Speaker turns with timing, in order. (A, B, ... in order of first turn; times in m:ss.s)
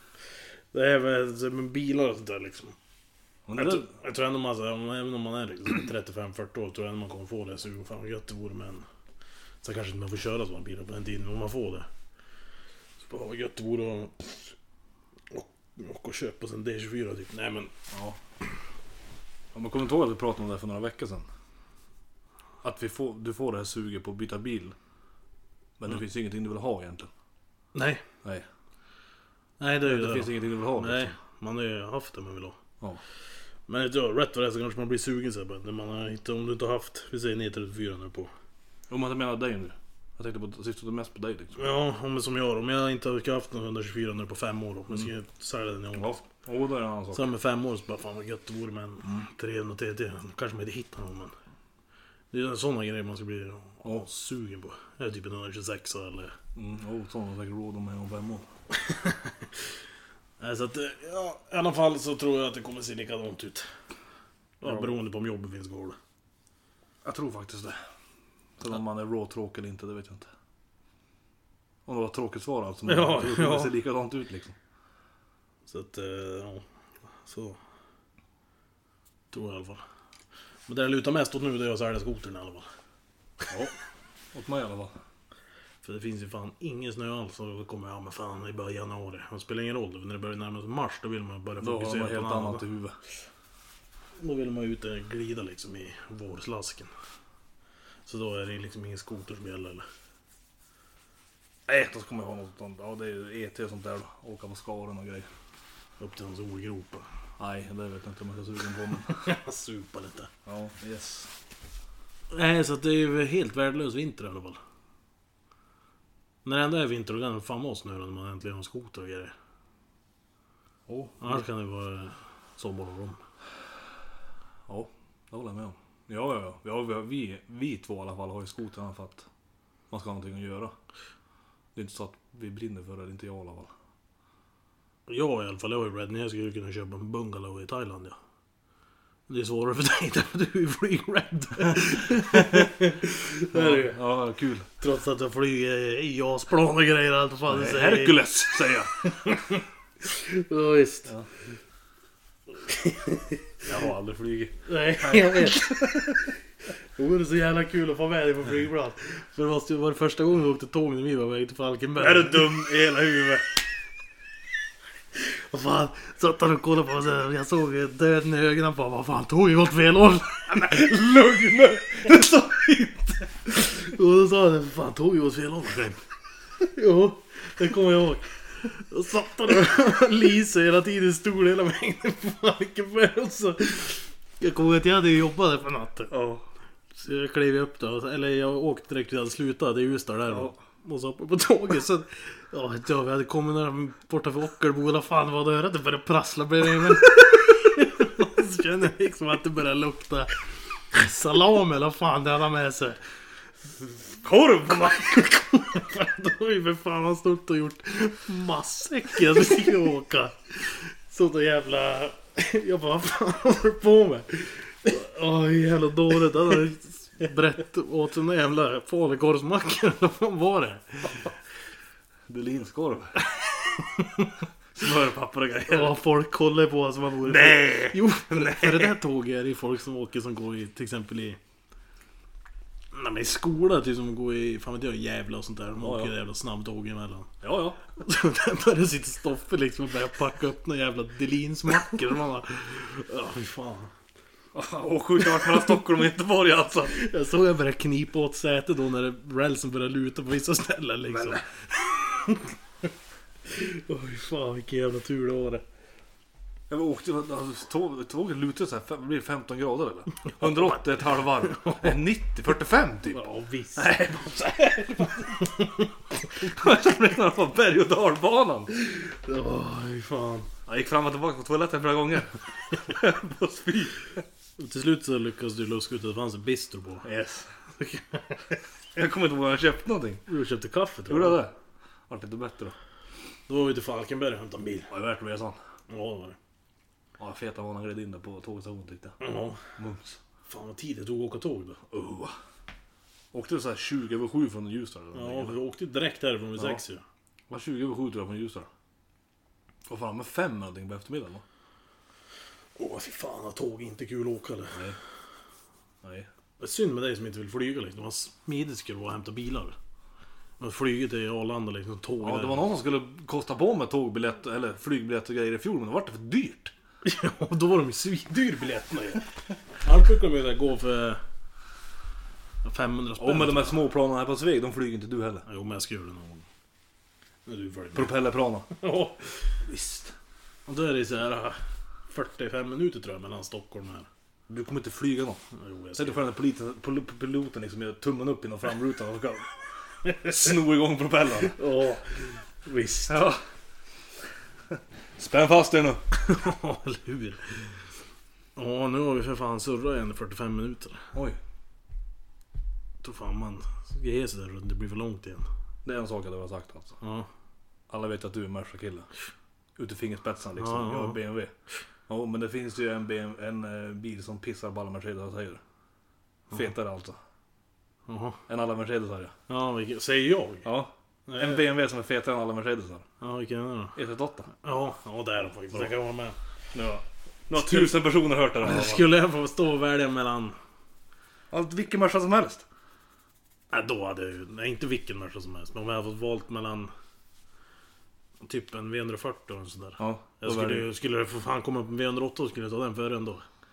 0:00.7-0:02.8 A
0:03.5-0:03.9 B
0:03.6-0:08.9 A
0:09.6-0:11.9 A
0:13.0-0:14.6 A
0:15.3-0:17.7 A
0:17.9-0:18.2 B
0:19.5-0:21.3 B
0:22.6-0:24.8 B
0:25.8-0:27.1 B
0:27.7-0:28.0 A
0:29.6-0:32.6 A
0:29.8-0:31.1 B
0:33.7-0:38.3 A
0:38.9-0:41.6 B
0:41.6-0:46.2 A
0:45.9-0:47.3 B
0:47.1-0:51.3 A
0:52.3-0:56.3 A
0:56.6-0:58.5 B
0:58.7-0:59.5 A
1:00.4-1:03.7 A
1:04.6-1:06.0 A
1:04.6-1:04.9 B
1:07.0-1:07.8 B
1:08.6-1:10.3 B
1:11.9-1:14.6 B
1:12.8-1:13.7 A
1:15.7-1:16.6 A
1:17.2-1:17.6 A
1:19.3-1:19.8 A
1:20.7-1:22.7 A
1:24.3-1:25.0 B
1:25.8-1:32.6 A
1:31.6-1:33.0 B
1:34.2-1:36.9 A
1:38.0-1:39.9 A
1:41.7-1:45.3 B
1:46.0-1:47.0 A
1:47.4-1:49.3 B
1:49.0-1:50.3 A
1:50.4-1:51.3 B
1:52.3-1:54.6 A
1:56.4-1:59.3 A
2:00.9-2:01.4 B
2:01.2-2:03.2 A
2:04.7-2:09.3 B
2:09.9-2:10.7 B
2:11.7-2:13.7 B
2:15.1-2:18.2 A
2:19.3-2:24.0 A
2:22.2-2:22.6 B
2:23.5-2:24.7 B
2:24.8-2:28.2 A
2:27.5-2:29.4 B
2:29.1-2:31.1 A
2:32.6-2:33.6 A
2:33.6-2:36.3 B
2:34.6-2:36.2 A
2:37.0-2:42.5 A
2:42.0-2:43.4 B
2:45.1-2:52.1 A
2:51.9-2:53.3 B
2:53.5-2:56.0 A
2:56.6-3:06.1 A
3:06.1-3:06.4 B
3:07.0-3:23.0 A
3:10.3-3:10.6 B
3:24.1-3:25.2 B
3:24.8-3:41.3 A
3:42.3-3:43.2 B
3:43.2-3:44.4 A
3:44.7-3:45.9 B
3:45.6-3:51.4 A
3:47.2-3:49.0 B
3:52.9-3:57.3 A
3:55.8-3:56.1 B
3:57.4-3:57.8 B
3:58.0-4:03.9 A
4:04.5-4:06.9 B
4:05.2-4:05.7 A
4:06.9-4:12.6 A
4:11.1-4:11.4 B
4:13.4-4:15.6 A
4:16.7-4:23.2 B
4:21.6-4:21.9 A
4:23.1-4:24.0 A
4:23.8-4:25.6 B
4:25.4-4:25.9 A
4:26.3-4:28.7 B
4:28.7-4:30.5 A
4:30.6-4:34.2 B
4:34.6-4:37.1 A
4:37.0-4:37.5 B
4:37.8-4:38.6 A
4:38.9-4:40.2 B
4:40.3-4:41.4 A
4:41.1-4:41.5 B
4:42.1-4:42.7 B
4:43.5-4:44.9 A
4:44.9-4:45.6 B
4:45.9-4:46.4 A
4:47.2-4:49.2 B
4:49.2-4:49.6 A
4:49.8-4:50.2 B
4:50.5-4:51.8 A
4:51.9-4:52.3 B
4:53.3-4:55.6 B
4:55.1-4:57.0 A
4:57.5-4:58.7 B
4:59.9-5:01.4 B
5:02.8-5:04.8 A
5:06.0-5:06.3 B
5:06.6-5:09.8 A
5:10.6-5:12.6 A
5:12.2-5:16.7 B
5:17.0-5:19.3 A
5:19.8-5:21.2 A
5:22.6-5:23.8 A
5:23.2-5:25.4 B
5:25.4-5:26.4 A
5:27.4-5:28.2 A
5:27.9-5:28.7 B
5:28.7-5:29.5 A
5:29.6-5:30.1 B
5:30.7-5:31.6 A
5:32.1-5:34.1 A
5:34.5-5:35.4 B
5:35.5-5:36.2 A
5:35.9-5:39.5 B
5:40.0-5:41.6 B
5:41.6-5:43.3 A
5:43.1-5:43.4 B
5:44.7-5:46.0 B
5:46.1-5:47.6 A
5:48.6-5:51.1 A
5:53.0-5:55.4 A
5:55.8-5:57.0 B
5:57.0-5:57.3 A
5:57.9-5:59.1 B
5:59.8-6:01.5 B
6:00.6-6:01.2 A
6:02.1-6:05.6 B
6:06.5-6:07.2 B
6:08.1-6:08.4 A
6:08.5-6:09.3 B
6:09.5-6:10.7 A
6:10.6-6:13.0 B
6:11.3-6:11.6 A
6:13.2-6:14.0 A
6:14.0-6:14.5 B
6:14.6-6:16.4 A
6:16.7-6:19.1 B
6:17.6-6:17.9 A
6:18.6-6:20.6 A
6:21.5-6:22.6 B
6:23.7-6:26.9 A
6:28.4-6:33.4 A
6:30.0-6:30.9 B